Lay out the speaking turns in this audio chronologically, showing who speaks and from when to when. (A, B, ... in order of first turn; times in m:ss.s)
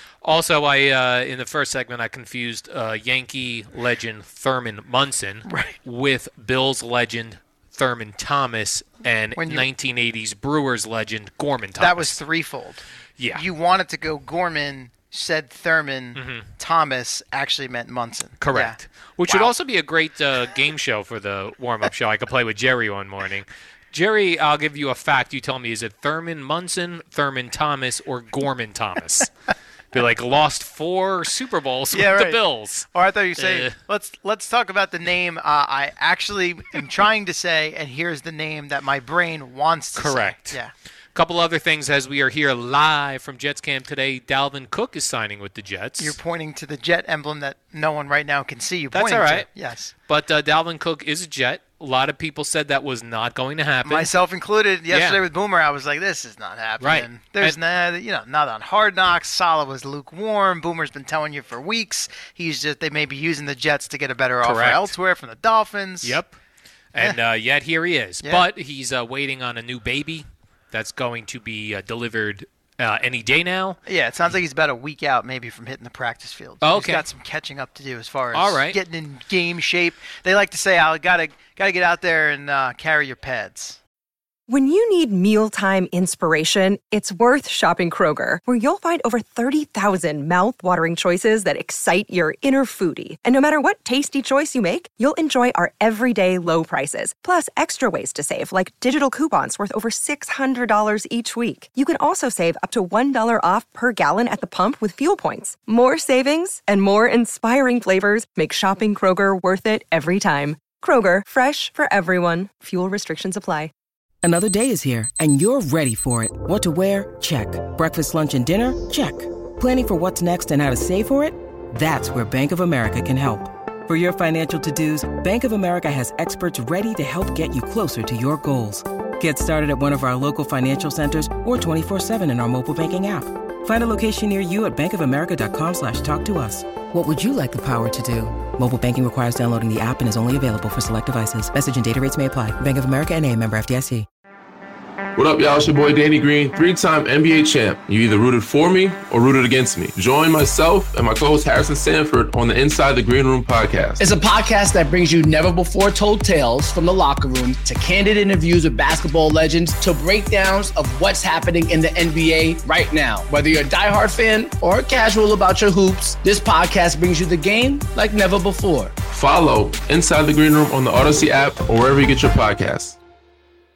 0:00.2-0:12.2 A
0:05.5-0:05.8 B
0:09.4-0:09.7 B
0:11.8-0:18.8 B
0:13.2-0:13.4 A
0:16.2-0:16.5 A
0:18.4-0:29.3 A
0:19.3-0:19.5 B
0:29.9-0:33.8 A
0:31.9-0:32.4 B
0:32.9-0:40.7 B
0:40.0-0:40.6 A
0:41.2-0:46.2 A
0:46.0-0:49.9 B
0:48.9-0:49.5 A
0:50.1-0:54.1 A
0:53.8-1:06.2 B
0:54.9-0:55.2 A
0:56.8-0:57.6 A
1:04.4-1:04.9 A
1:06.0-1:06.4 A
1:06.9-1:13.8 A
1:13.9-1:23.8 B
1:16.6-1:17.1 A
1:18.3-1:18.8 A
1:24.5-1:53.7 C
1:54.2-2:24.1 D
2:25.2-2:34.0 E
2:34.0-2:49.0 F
2:49.1-2:53.0 E